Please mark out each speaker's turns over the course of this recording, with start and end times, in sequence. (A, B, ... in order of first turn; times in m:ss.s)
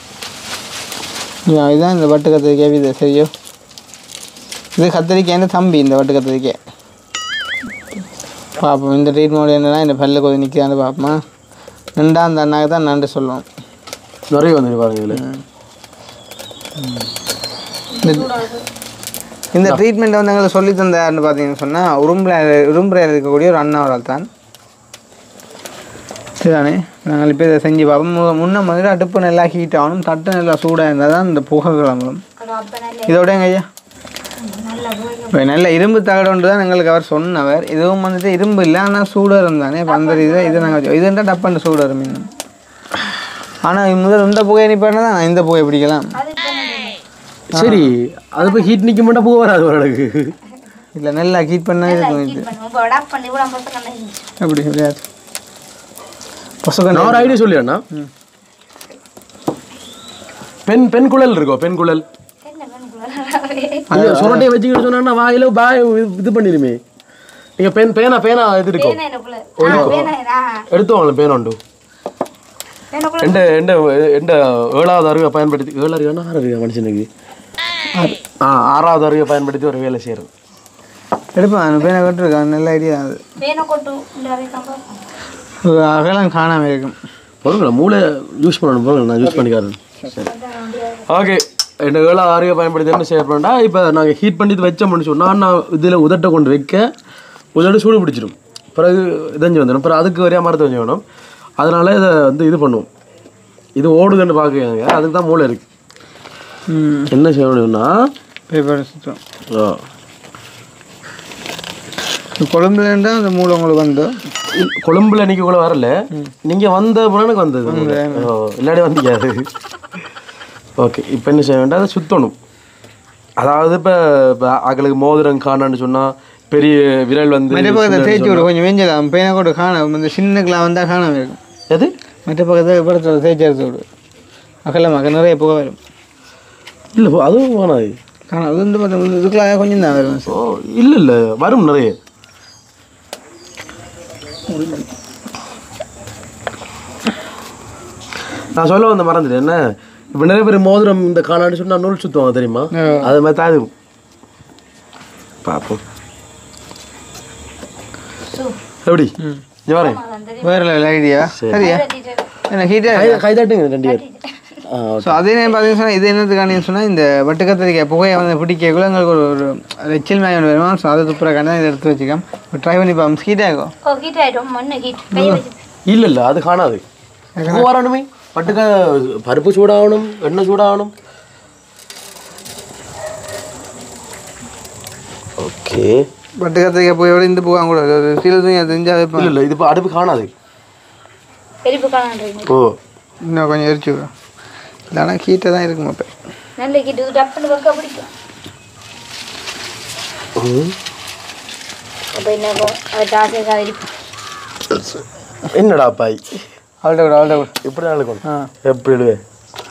0:01.4-0:03.3 A
0:04.8-0:06.6 A
0:08.6-0:11.2 A
0:12.0-0:13.4 A
0:14.3-0:15.2 B
0:15.1-0:15.4 A
0:17.9-0:18.6 C
0:18.0-0:18.3 A
0:19.5-0:24.3 A
0:26.4-0:32.2 A
0:32.4-0:33.2 C
0:33.1-0:33.6 A
0:34.4-0:35.4 C
0:35.3-0:42.2 A
0:39.9-0:40.8 C
0:43.6-0:46.1 A
0:46.1-0:47.0 C
0:47.5-0:47.9 A
0:47.5-0:50.4 B
0:48.4-0:48.8 C
0:50.9-0:52.5 A
0:51.8-0:54.3 C
0:54.4-0:55.0 A
0:56.6-0:58.1 A
0:56.9-0:57.8 B
1:00.6-1:02.0 B
1:02.4-1:03.9 C
1:03.9-1:04.5 A
1:03.9-1:06.8 B
1:07.6-1:09.0 B
1:08.8-1:10.7 C
1:09.6-1:10.1 B
1:09.6-1:09.9 A
1:10.7-1:11.6 B
1:12.9-1:13.5 C
1:13.2-1:17.1 B
1:18.4-1:20.3 B
1:21.3-1:23.2 A
1:23.4-1:24.8 C
1:25.6-1:27.0 A
1:27.4-1:30.3 B
1:30.1-1:31.1 C
1:31.1-1:36.9 B
1:37.5-1:41.0 B
1:41.6-1:42.9 B
1:43.8-1:45.6 B
1:46.7-1:47.1 A
1:47.1-1:48.1 B
1:48.5-1:49.2 A
1:49.5-1:49.8 B
1:52.4-1:54.2 A
1:54.5-1:59.5 B
1:57.6-1:58.3 A
2:00.8-2:02.3 B
2:03.4-2:08.5 B
2:07.5-2:11.4 A
2:12.2-2:13.8 A
2:14.6-2:15.8 A
2:16.9-2:18.0 B
2:18.3-2:20.4 A
2:20.3-2:22.0 B
2:28.5-2:33.7 B
2:32.7-2:33.1 A
2:35.4-2:35.8 B
2:38.2-2:38.6 C
2:38.8-2:40.0 B
2:39.8-2:40.7 C
2:40.4-2:41.8 A
2:41.4-2:41.7 B
2:41.6-2:42.3 C
2:42.5-2:43.2 A
2:42.9-2:44.0 B
2:43.8-2:44.6 C
2:44.6-2:45.3 B
2:45.0-2:53.7 A
2:53.8-2:55.6 C
2:55.1-2:55.4 A
2:55.9-2:56.8 B
2:57.4-2:57.7 A
2:57.4-3:00.9 B
3:05.4-3:06.0 B
3:06.4-3:09.3 A
3:09.2-3:10.3 B
3:11.6-3:12.5 C
3:12.5-3:12.8 B
3:13.2-3:14.1 A
3:14.9-3:16.1 A
3:16.6-3:18.1 C
3:20.4-3:20.8 B
3:22.1-3:23.9 C
3:25.5-3:26.2 B
3:26.8-3:27.5 A
3:27.6-3:29.2 B
3:28.2-3:28.5 A